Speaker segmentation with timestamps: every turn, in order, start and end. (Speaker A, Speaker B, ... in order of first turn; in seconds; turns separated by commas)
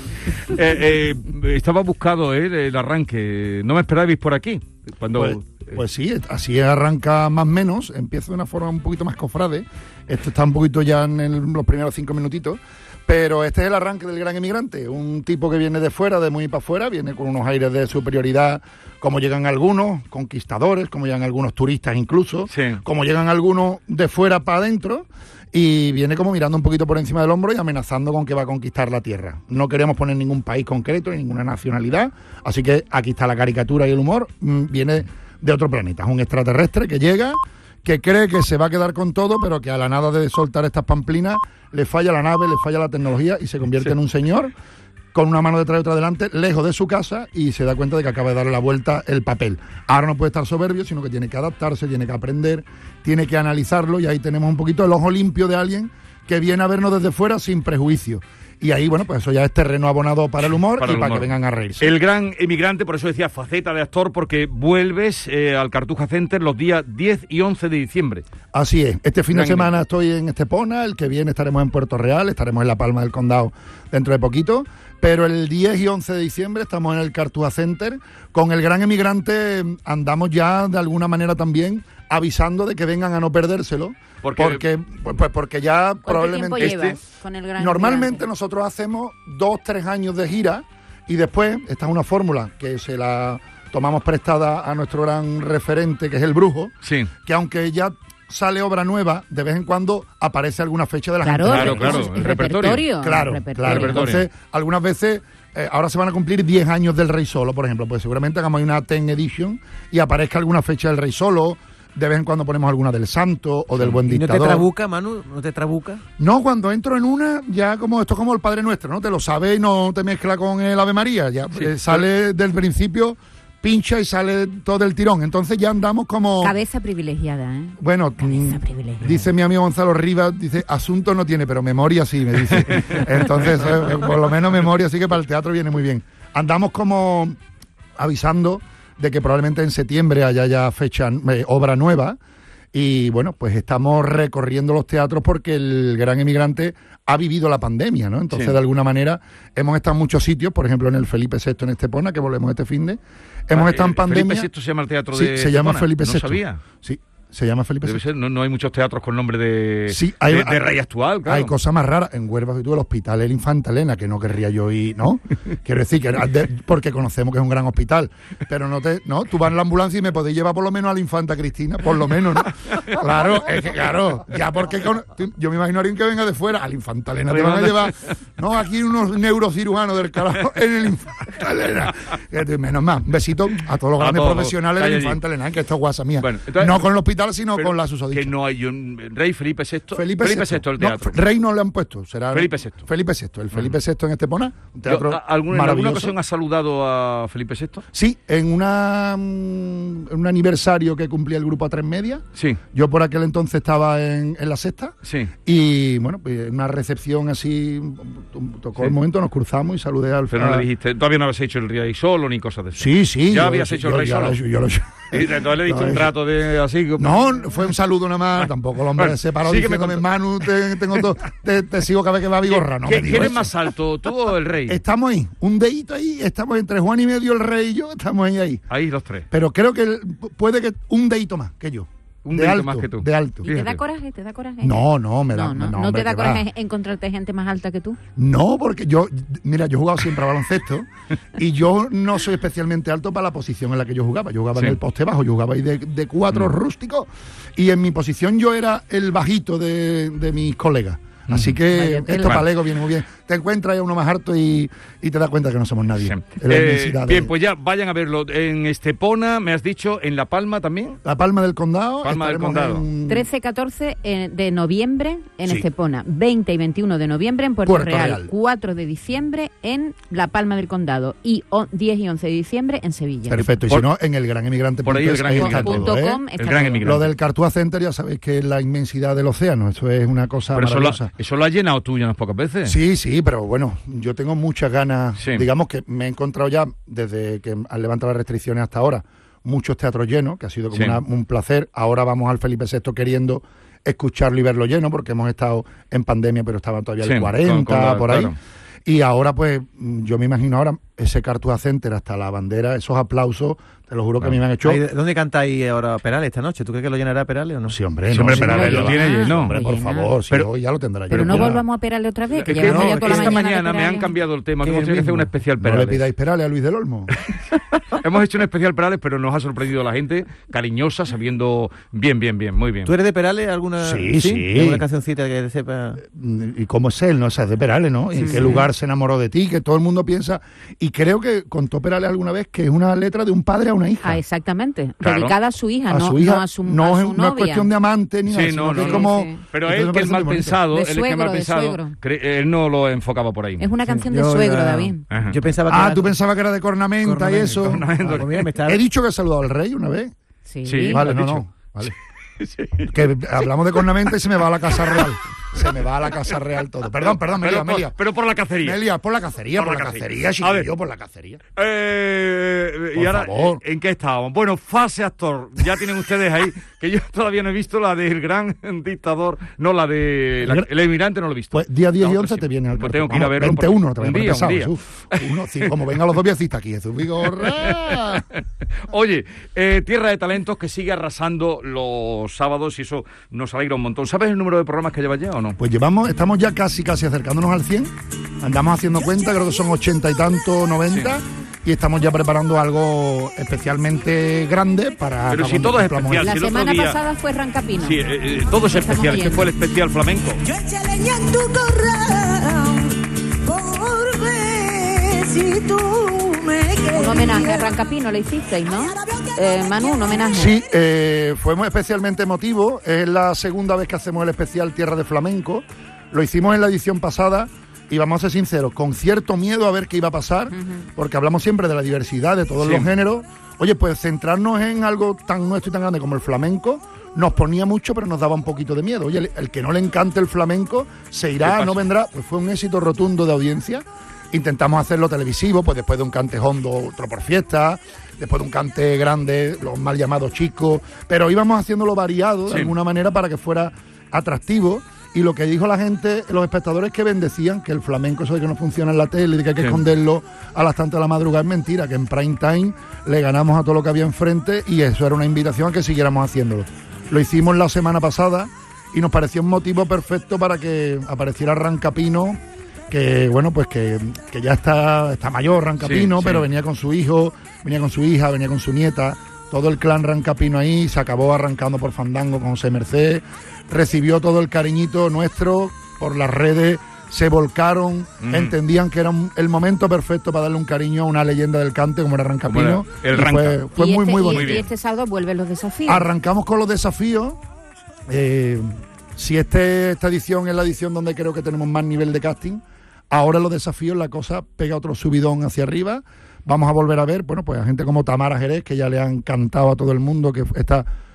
Speaker A: 0.5-5.8, Speaker B: 5.1-44.5, Speaker A: 22.5-22.8, Speaker B: 45.1-61.9, Speaker A: 60.8-61.3, Speaker A: 61.8-68.2, Speaker B: 68.5-86.9, Speaker A: 69.3-69.7, Speaker A: 84.2-84.6, Speaker C: 86.0-88.2, Speaker A: 86.6-87.0, Speaker B: 87.6-96.7, Speaker A: 96.8-97.1, Speaker B: 97.2-102.1, Speaker C: 101.2-104.1, Speaker A: 101.5-102.8, Speaker B: 103.0-114.7, Speaker A: 103.6-104.3, Speaker D: 113.9-116.0, Speaker B: 116.2-126.5, Speaker C: 126.4-129.2, Speaker B: 127.8-137.4, Speaker A: 132.7-133.0, Speaker B: 138.0-142.2, Speaker B: 142.7-154.5, Speaker A: 153.5-156.6, Speaker B: 155.1-158.0, Speaker A: 157.8-161.5, Speaker B: 159.9-188.3, Speaker A: 177.3-177.9, Speaker A: 184.0-185.2, Speaker A: 186.2-186.8, Speaker A: 187.6-191.2, Speaker B: 189.9-196.2, Speaker A: 192.3-192.8, Speaker A: 194.8-197.8, Speaker B: 197.9-204.9, Speaker A: 202.3-202.6, Speaker A: 205.0-205.3, Speaker B: 205.4-210.6, Speaker A: 210.3-214.4, Speaker B: 212.8-216.1, Speaker A: 215.1-217.5, Speaker B: 217.0-223.5, Speaker A: 218.9-220.0, Speaker A: 222.4-224.8, Speaker B: 224.7-228.6, Speaker A: 228.7-229.3, Speaker B: 229.3-233.4, Speaker A: 232.2-233.8, Speaker C: 233.4-238.0, Speaker B: 234.6-236.4, Speaker B: 238.2-257.3, Speaker A: 251.3-252.5, Speaker A: 256.0-261.0, Speaker B: 261.0-263.3, Speaker A: 262.0-262.8, Speaker C: 263.1-273.5, Speaker B: 267.6-268.3, Speaker B: 273.3-276.2, Speaker A: 274.8-277.1, Speaker C: 275.3-276.9, Speaker B: 276.8-281.1, Speaker A: 280.5-282.8, Speaker B: 282.6-304.8, Speaker A: 285.2-285.4, Speaker A: 290.7-291.0, Speaker A: 297.0-298.4, Speaker D: 304.6-307.8, Speaker B: 307.7-311.6, Speaker A: 308.1-309.5, Speaker C: 308.3-310.1, Speaker C: 311.1-314.1, Speaker A: 311.2-311.5, Speaker A: 312.4-316.0, Speaker D: 312.4-313.4, Speaker D: 314.6-315.3, Speaker B: 315.6-317.1, Speaker A: 317.9-322.9, Speaker D: 322.8-326.0, Speaker B: 323.8-324.8, Speaker B: 326.0-334.2, Speaker C: 328.2-328.7, Speaker C: 334.0-337.7, Speaker A: 335.0-335.3, Speaker B: 335.9-340.6, Speaker A: 338.3-343.7, Speaker C: 338.8-339.4, Speaker C: 340.7-341.9, Speaker C: 343.6-345.0, Speaker D: 343.8-346.1, Speaker A: 345.1-345.4, Speaker B: 345.7-350.1, Speaker D: 347.0-348.8, Speaker A: 347.6-348.3, Speaker C: 350.4-351.0, Speaker A: 350.7-353.1, Speaker B: 350.9-351.9, Speaker B: 352.9-357.9, Speaker A: 354.8-355.1, Speaker A: 357.3-358.8, Speaker B: 358.6-361.4, Speaker A: 359.6-360.7, Speaker A: 361.6-375.7, Speaker B: 362.9-363.6, Speaker B: 370.4-370.7, Speaker B: 371.5-378.2, Speaker A: 377.3-385.6, Speaker B: 385.6-396.3, Speaker A: 395.3-397.0, Speaker C: 396.2-398.0, Speaker A: 397.8-400.4, Speaker C: 398.7-399.5, Speaker E: 400.4-407.8, Speaker C: 406.9-410.6, Speaker E: 408.7-410.3, Speaker B: 410.3-484.6, Speaker C: 420.5-420.8, Speaker A: 422.6-422.9, Speaker A: 431.4-431.8, Speaker A: 442.5-442.7, Speaker A: 465.8-466.4, Speaker A: 478.2-478.5, Speaker A: 482.5-483.6, Speaker C: 483.8-486.1, Speaker A: 484.3-484.7, Speaker B: 485.9-487.4, Speaker B: 488.1-500.9